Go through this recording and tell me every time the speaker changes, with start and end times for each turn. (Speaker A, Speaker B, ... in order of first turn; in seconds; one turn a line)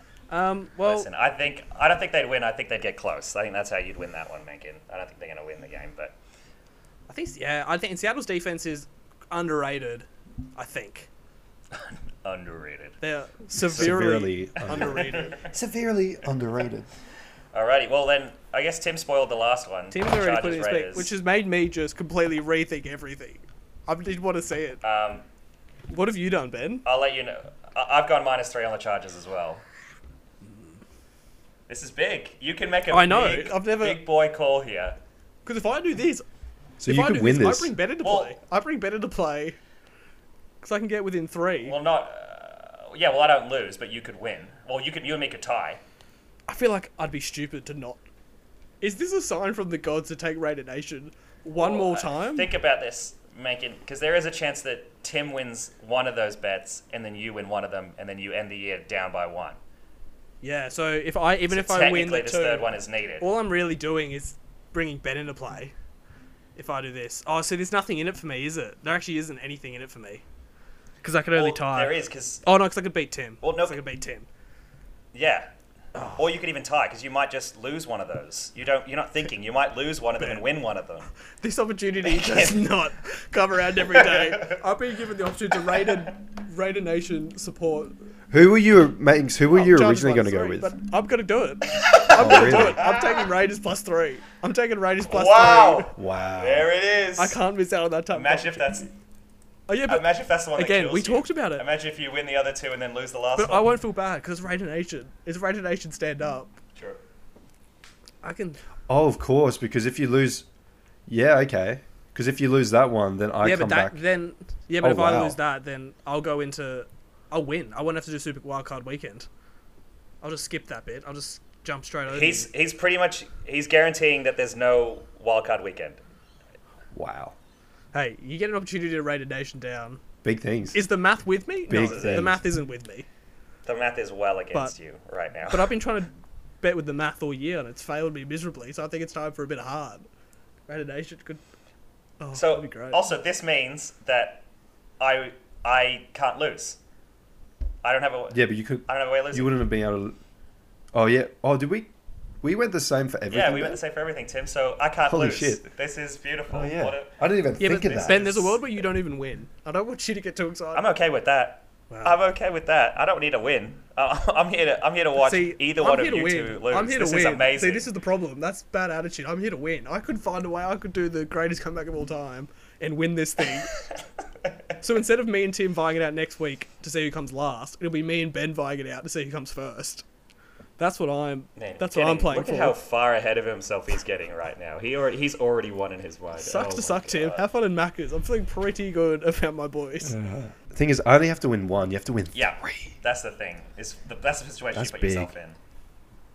Speaker A: 0.3-1.1
Speaker B: 0.8-6.2
Speaker A: 7.1-11.1
Speaker B: 11.7-13.0
Speaker A: 13.0-15.4
Speaker C: 13.7-16.9
Speaker B: 14.7-15.5
Speaker B: 17.5-21.1
Speaker A: 19.9-24.8
Speaker B: 24.8-25.2
Speaker A: 25.9-26.8
Speaker B: 26.8-29.6
Speaker B: 31.7-35.0
Speaker A: 32.9-34.0
Speaker A: 35.5-36.2
Speaker C: 36.8-37.7
Speaker A: 36.9-39.6
Speaker B: 38.0-38.4
Speaker A: 40.6-41.8
Speaker B: 41.6-45.8
Speaker A: 46.5-48.0
Speaker A: 48.8-52.5
Speaker B: 51.5-59.6
Speaker A: 60.4-65.7
Speaker B: 61.5-63.2
Speaker A: 66.5-70.2
Speaker A: 71.0-74.3
Speaker B: 71.3-72.4
Speaker B: 73.4-73.8
Speaker B: 75.1-75.5
Speaker A: 75.9-76.2
Speaker B: 76.1-81.1
Speaker A: 80.2-80.6
Speaker A: 81.4-87.9
Speaker B: 82.2-82.6
Speaker B: 84.0-84.5
Speaker C: 88.3-90.7
Speaker A: 89.5-95.9
Speaker B: 91.7-93.3
Speaker C: 92.2-92.8
Speaker B: 95.1-97.4
Speaker C: 96.0-96.7
Speaker A: 97.2-98.8
Speaker B: 98.1-98.9
Speaker A: 99.7-101.6
Speaker B: 99.8-103.7
Speaker A: 103.4-106.6
Speaker A: 108.2-108.6
Speaker C: 108.9-110.5
Speaker C: 111.1-114.0
Speaker A: 113.4-119.3
Speaker C: 114.8-115.4
Speaker A: 120.2-122.5
Speaker B: 122.1-126.0
Speaker C: 126.9-127.3
Speaker A: 127.9-130.0
Speaker C: 130.2-130.8
Speaker A: 130.7-133.1
Speaker C: 131.7-132.4
Speaker B: 131.8-132.3
Speaker B: 133.7-135.7
Speaker A: 135.5-140.1
Speaker A: 140.7-141.4
Speaker A: 142.2-143.1
Speaker B: 142.3-144.4
Speaker B: 145.0-146.8
Speaker B: 147.8-149.6
Speaker C: 148.3-150.2
Speaker C: 150.9-151.9
Speaker C: 152.4-153.8
Speaker B: 153.3-157.1
Speaker C: 155.1-155.7
Speaker C: 156.5-158.3
Speaker A: 157.6-160.8
Speaker B: 157.8-158.6
Speaker B: 160.7-167.9
Speaker A: 161.9-162.2
Speaker A: 165.2-173.8
Speaker A: 174.8-180.0
Speaker A: 180.8-182.8
Speaker B: 181.6-187.4
Speaker A: 186.4-190.2
Speaker C: 190.1-192.9
Speaker B: 192.3-195.6
Speaker C: 194.7-195.3